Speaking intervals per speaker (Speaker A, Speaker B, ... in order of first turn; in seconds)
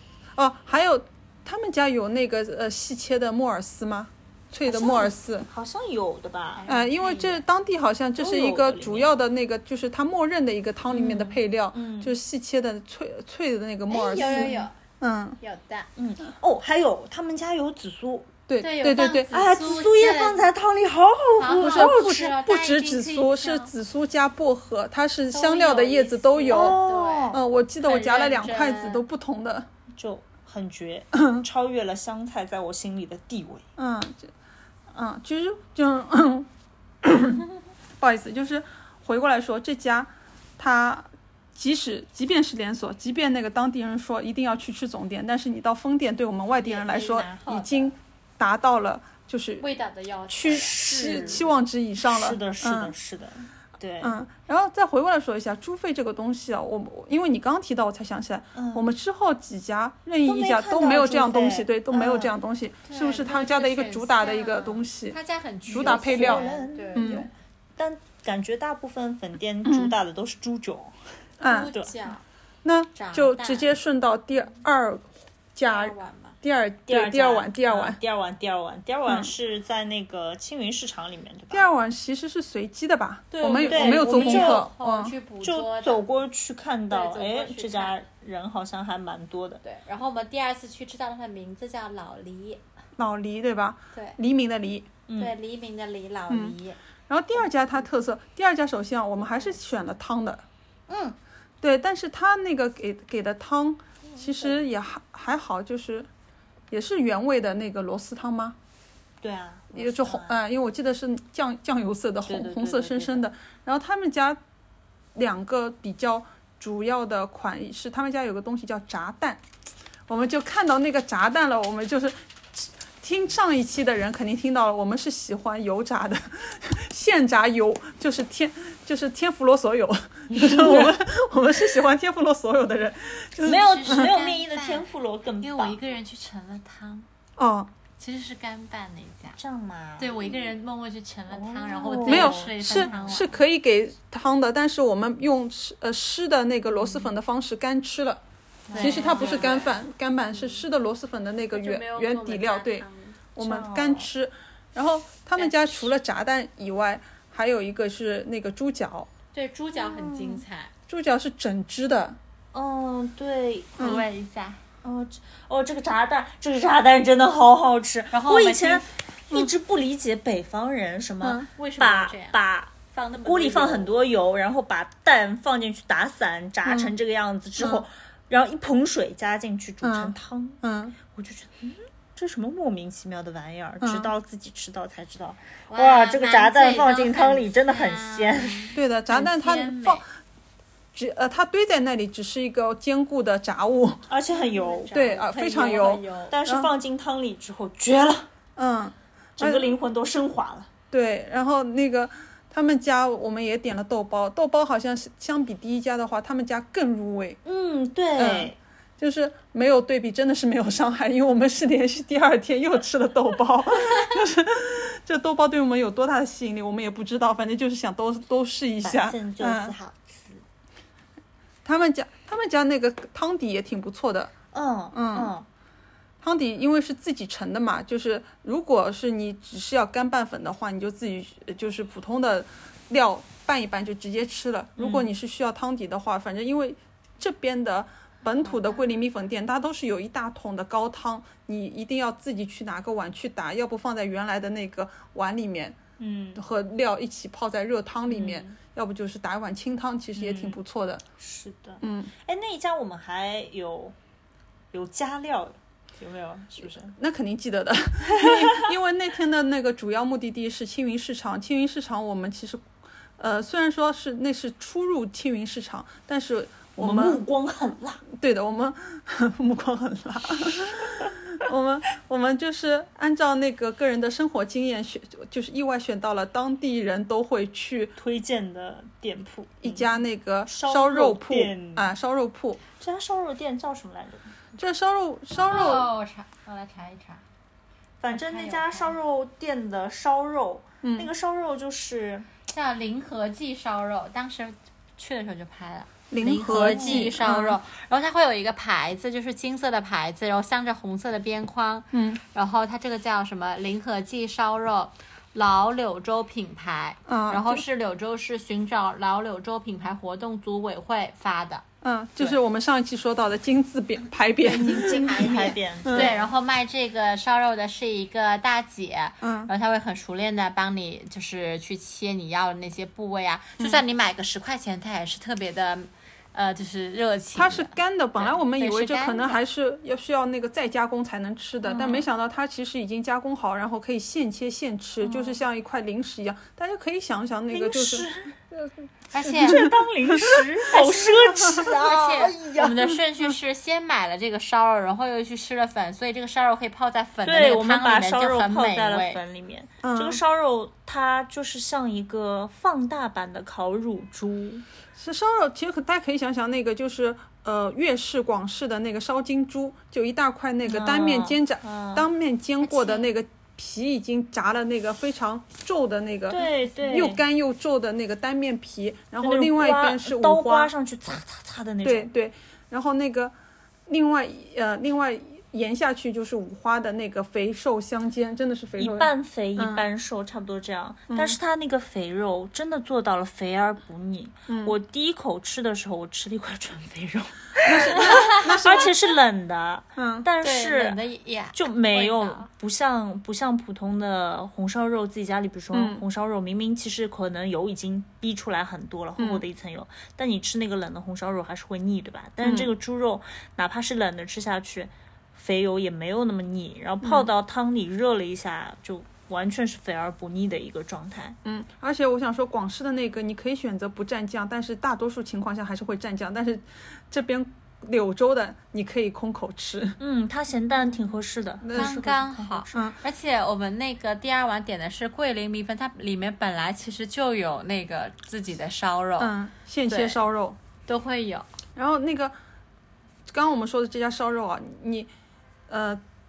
Speaker A: 0.3-5.5, 6.7-15.4, 18.5-19.3, 21.5-26.8, 27.3-29.7, 33.8-34.3, 34.9-36.5, 37.0-37.5, 38.0-49.6, 50.3-52.9, 54.0-65.2, 65.7-67.3, 69.6-69.9, 71.4-71.7, 72.6-78.0, 79.1-79.3, 81.5-85.1, 93.0-94.9, 96.3-96.5, 97.1-100.4, 101.6-106.1, 106.7-108.5, 109.7-114.4, 115.1-119.4, 120.1-134.1, 137.4-137.7, 142.1-148.2, 148.8-152.8, 153.3-159.1, 160.9-162.2, 163.8-164.0, 171.2-171.5, 176.6-176.9, 177.6-177.8, 179.8-181.0, 183.8-184.1, 188.7-190.0, 190.9-194.1, 194.9-196.7, 198.6-199.8, 200.9-207.4, 208.1-219.7, 221.6-224.3, 224.9-225.3, 226.2-245.8, 246.3-251.0, 251.8-252.1, 256.9-262.6, 263.2-267.2, 268.1-277.9, 279.6-282.6, 284.6-285.9, 290.8-291.1, 296.1-297.6, 301.9-302.2, 307.1-307.6, 311.8-316.1, 319.2-319.5, 327.3-338.7, 339.2-340.4, 341.4-341.7, 349.8-350.2, 354.9-370.7, 371.8-373.3, 373.9-379.8, 381.1-381.4, 384.5-384.8, 387.6-388.9, 389.9-390.2, 395.7-396.0, 399.2-399.4, 402.4-402.7, 407.0-407.3, 411.4-420.0, 421.6-422.0, 429.2-430.6, 431.8-432.3, 433.3-435.1, 435.7-436.0
Speaker B: 4.6-6.7, 8.2-9.1, 10.9-12.1, 14.2-14.6, 16.0-18.3, 19.3-22.3, 26.5-27.4, 30.0-33.6, 50.5-51.5, 52.0-54.2, 58.5-58.9, 60.2-62.3, 65.7-71.0, 71.6-71.9, 76.9-81.7, 83.7-84.6, 85.4-89.6, 95.1-95.3, 100.9-101.2, 109.2-110.3, 112.3-113.3, 130.3-130.9, 133.4-135.8, 139.4-140.5, 141.3-142.9, 146.8-147.1, 148.7-149.7, 153.4-154.1, 159.7-160.4, 162.5-164.0, 164.8-180.6, 181.1-188.7, 194.1-195.0, 196.3-198.3, 199.4-200.7, 207.4-208.6, 218.8-220.4, 224.5-225.4, 234.8-235.1, 246.0-246.4, 248.1-248.5, 250.2-250.6, 251.2-253.9, 254.7-256.9, 258.1-258.7, 266.8-268.0, 278.0-279.9, 280.4-281.9, 282.8-284.3, 288.0-292.3, 296.4-297.2, 314.6-316.2, 331.7-332.0, 335.0-335.4, 337.5-338.3, 339.4-342.8, 347.2-354.6, 360.7-362.1, 366.3-367.2, 369.2-372.1, 378.8-391.0, 391.5-411.4, 420.0-422.9
Speaker C: 6.5-7.4, 13.9-14.7, 15.4-15.9, 18.6-20.5, 21.4-23.7, 25.3-29.0, 46.5-47.9, 49.6-51.5, 62.9-67.2, 71.4-72.2, 72.9-73.7, 75.7-76.3, 83.3-86.0, 86.9-88.0, 89.6-92.6, 95.2-96.8, 133.4-134.8, 135.4-137.1, 138.0-139.4, 140.0-143.4, 148.7-149.8, 151.5-153.2, 155.3-155.9, 159.3-160.7, 163.8-164.6, 168.1-168.8, 171.6-172.3, 172.9-174.0, 185.7-190.0, 194.3-196.3, 238.4-238.8, 285.3-287.2, 288.1-288.9, 292.5-311.6, 314.4-329.4, 339.1-339.6, 340.7-349.2, 362.6-363.1, 387.9-388.5, 390.4-392.5, 421.7-429.3, 429.9-430.2, 430.9-431.5